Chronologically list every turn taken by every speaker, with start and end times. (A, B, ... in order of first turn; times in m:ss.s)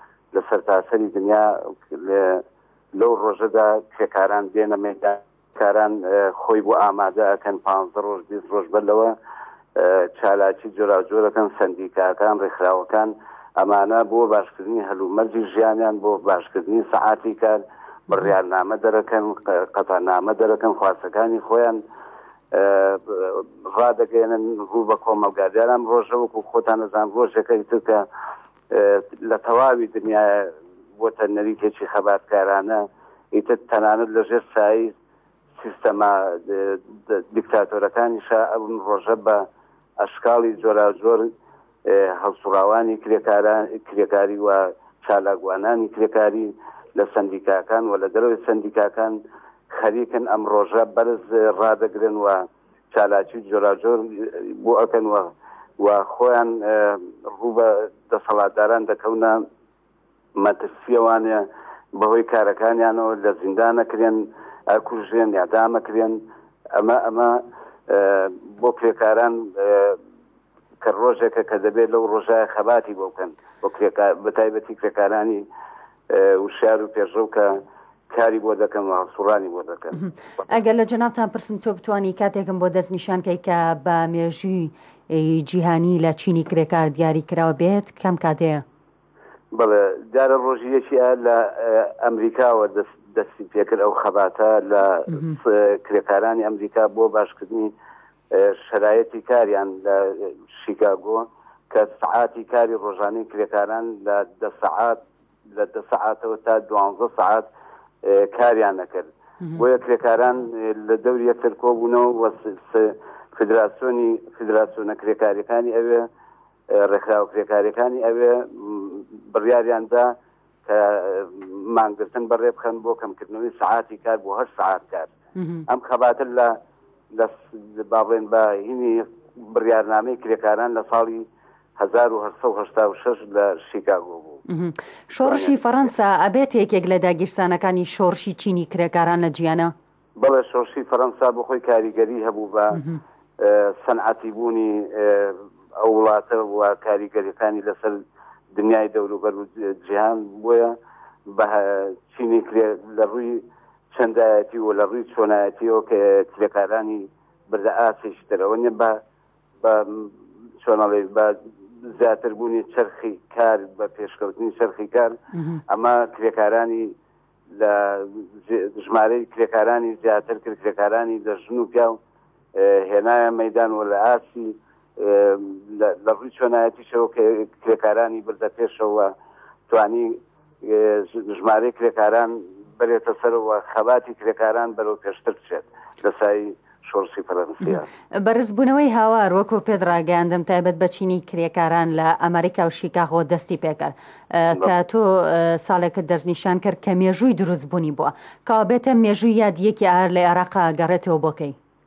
0:00.3-0:02.4 A
0:02.9-0:09.1 A
0:09.7-0:21.8 A
0:22.5-0:28.1 A
0:28.7-0:35.0 A
0:35.6-0:39.4 A
0:40.0-0:41.3 A
0:41.8-0:59.4 A
1:00.4-1:06.2 A
1:06.7-1:10.0 A
1:10.8-1:15.5 A
1:16.1-1:20.0 A
1:19.9-1:28.6 B
1:29.5-1:37.7 A
1:35.1-1:35.4 B
1:38.3-1:47.5 A
1:48.0-1:56.1 A
1:56.7-2:05.1 A
2:05.4-2:05.6 B
2:05.7-2:06.6 A
2:07.1-2:14.4 A
2:14.5-2:19.7 B
2:15.2-2:15.5 A
2:20.2-2:22.8 A
2:23.4-2:28.0 A
2:28.5-2:30.8 A
2:31.3-2:39.0 A
2:39.6-2:45.2 A
2:45.3-2:45.6 B
2:45.7-2:46.9 A
2:47.5-2:52.0 A
2:52.5-2:59.1 A
2:59.7-3:07.9 A
3:07.6-3:21.6 B